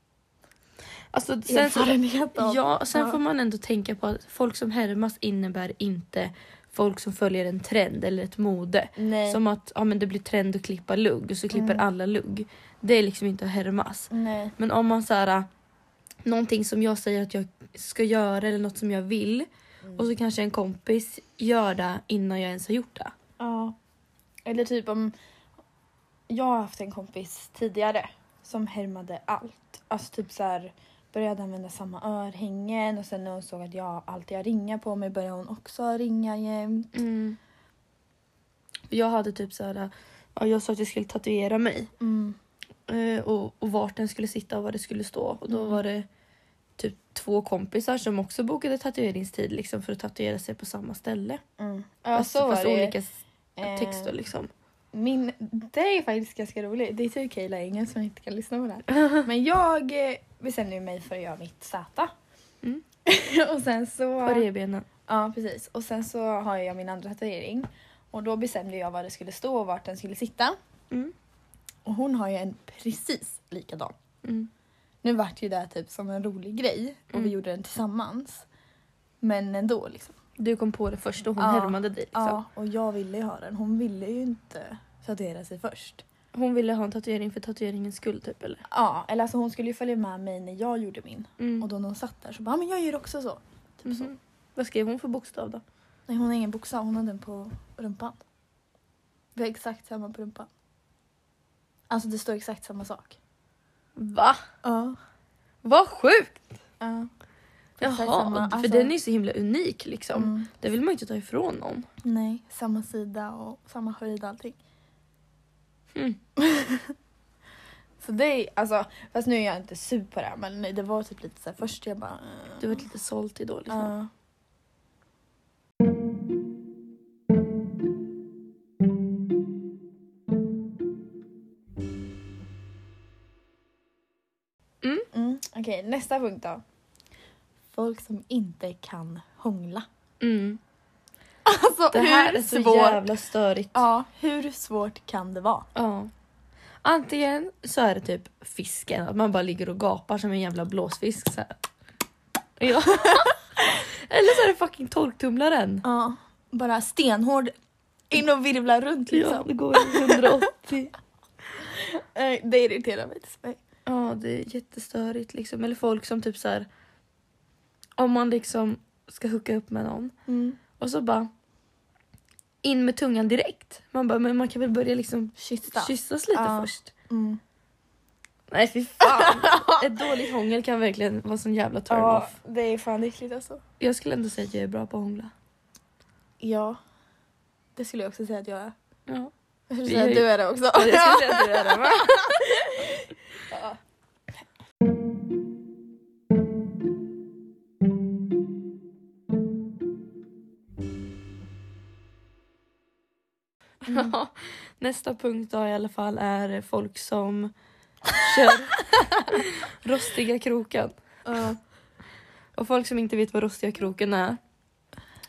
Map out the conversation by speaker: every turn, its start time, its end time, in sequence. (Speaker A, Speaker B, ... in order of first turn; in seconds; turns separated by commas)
Speaker A: 1.1-15.5, Speaker B: 1.5-3.2, Speaker B: 8.9-9.4, Speaker B: 11.5-11.8, Speaker B: 14.1-14.5, Speaker A: 16.2-23.1, Speaker B: 23.4-23.8, Speaker B: 24.4-25.1, Speaker B: 26.3-36.9, Speaker A: 36.9-37.4, Speaker A: 38.9-41.9, Speaker B: 42.0-42.4, Speaker A: 42.9-46.1, Speaker B: 45.5-45.8, Speaker A: 46.8-51.4, Speaker B: 51.6-53.0, Speaker A: 52.1-54.5, Speaker B: 53.5-54.1, Speaker B: 54.9-62.1, Speaker B: 63.0-64.5, Speaker A: 64.2-64.9, Speaker B: 65.1-70.6, Speaker B: 71.8-73.9, Speaker A: 74.2-74.5, Speaker B: 75.0-78.5, Speaker B: 79.2-80.2, Speaker A: 80.4-82.4, Speaker B: 81.4-86.0, Speaker A: 86.3-88.6, Speaker B: 88.7-94.1, Speaker A: 91.4-91.7, Speaker A: 93.8-95.6, Speaker B: 96.1-98.2, Speaker B: 99.3-100.5, Speaker B: 101.9-103.2, Speaker A: 104.0-104.4, Speaker B: 104.6-105.0, Speaker A: 105.6-106.4, Speaker B: 106.8-107.1, Speaker A: 107.8-111.9, Speaker B: 107.8-108.9, Speaker B: 110.1-110.5, Speaker B: 112.0-114.6, Speaker A: 115.9-116.2, Speaker B: 116.4-116.9, Speaker B: 118.0-122.8, Speaker A: 122.6-123.9, Speaker B: 123.7-124.1, Speaker A: 134.8-135.1, Speaker B: 135.1-136.6, Speaker B: 137.7-139.8, Speaker A: 140.2-140.6, Speaker B: 141.4-143.1, Speaker A: 141.9-143.8, Speaker B: 143.7-145.7, Speaker A: 145.7-146.1, Speaker A: 146.8-151.5, Speaker A: 152.6-155.8, Speaker B: 153.0-153.3, Speaker B: 155.8-157.5, Speaker B: 158.1-160.4, Speaker A: 159.1-160.9, Speaker B: 161.6-163.6, Speaker A: 163.8-166.7, Speaker A: 168.0-170.1, Speaker B: 170.3-170.6, Speaker A: 170.8-171.3, Speaker A: 172.6-176.9, Speaker B: 175.4-177.4, Speaker A: 178.5-182.3, Speaker B: 179.0-180.1, Speaker B: 181.9-183.6, Speaker A: 183.8-185.3, Speaker B: 186.4-186.8, Speaker B: 187.8-188.7, Speaker A: 189.1-189.3, Speaker B: 189.7-193.8, Speaker A: 189.8-192.4, Speaker B: 203.8-204.1, Speaker A: 203.8-207.5, Speaker A: 208.2-211.5, Speaker B: 208.9-209.3, Speaker B: 211.2-211.6, Speaker A: 212.5-214.4